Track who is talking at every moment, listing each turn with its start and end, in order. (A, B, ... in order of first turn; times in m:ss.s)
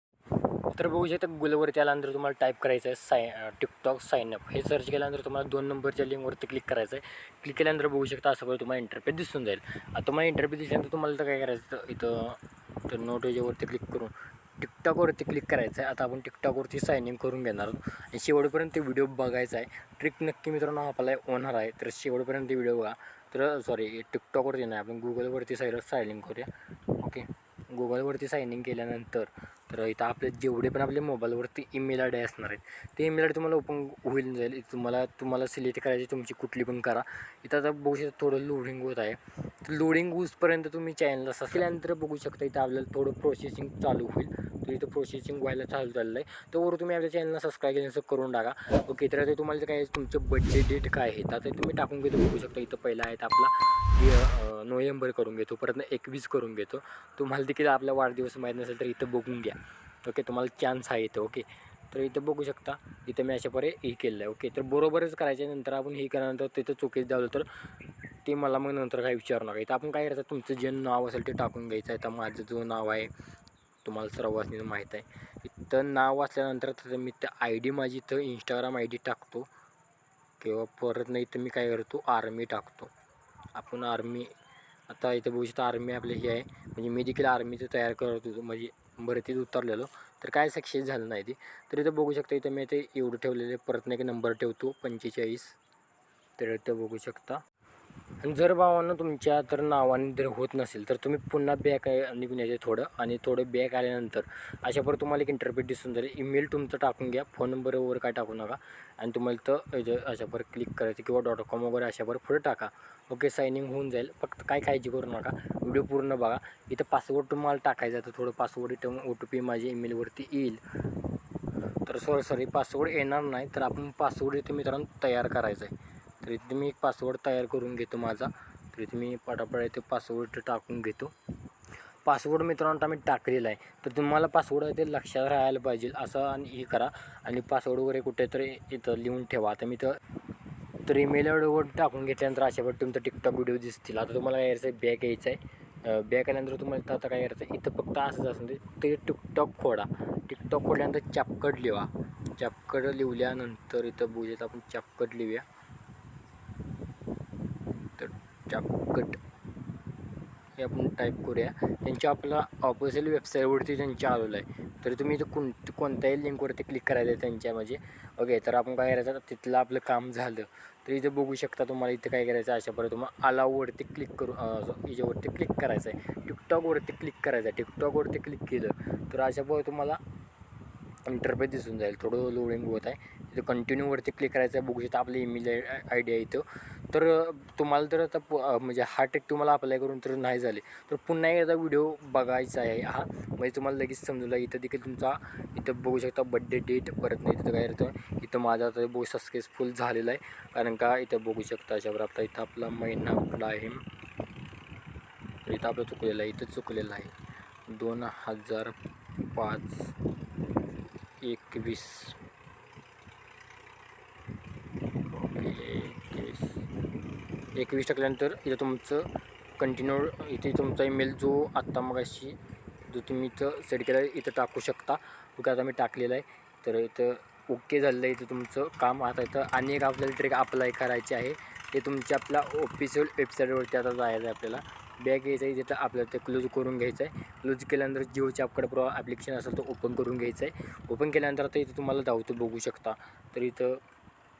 0:00.7-1:07.5 A
1:08.2-1:13.1 A
1:13.8-1:19.5 A
1:20.4-1:22.9 A
1:23.5-1:24.3 A
1:24.9-1:35.6 A
1:36.4-1:37.4 A
1:38.2-2:00.6 A
2:01.8-2:11.1 A
2:12.0-2:20.0 A
2:20.8-2:35.4 A
2:38.0-2:39.2 A
2:40.6-3:00.0 A
3:01.0-3:23.8 A
3:25.4-3:27.1 A
3:27.7-3:29.9 A
3:31.2-3:32.2 A
3:35.1-3:36.6 A
3:37.5-4:03.8 A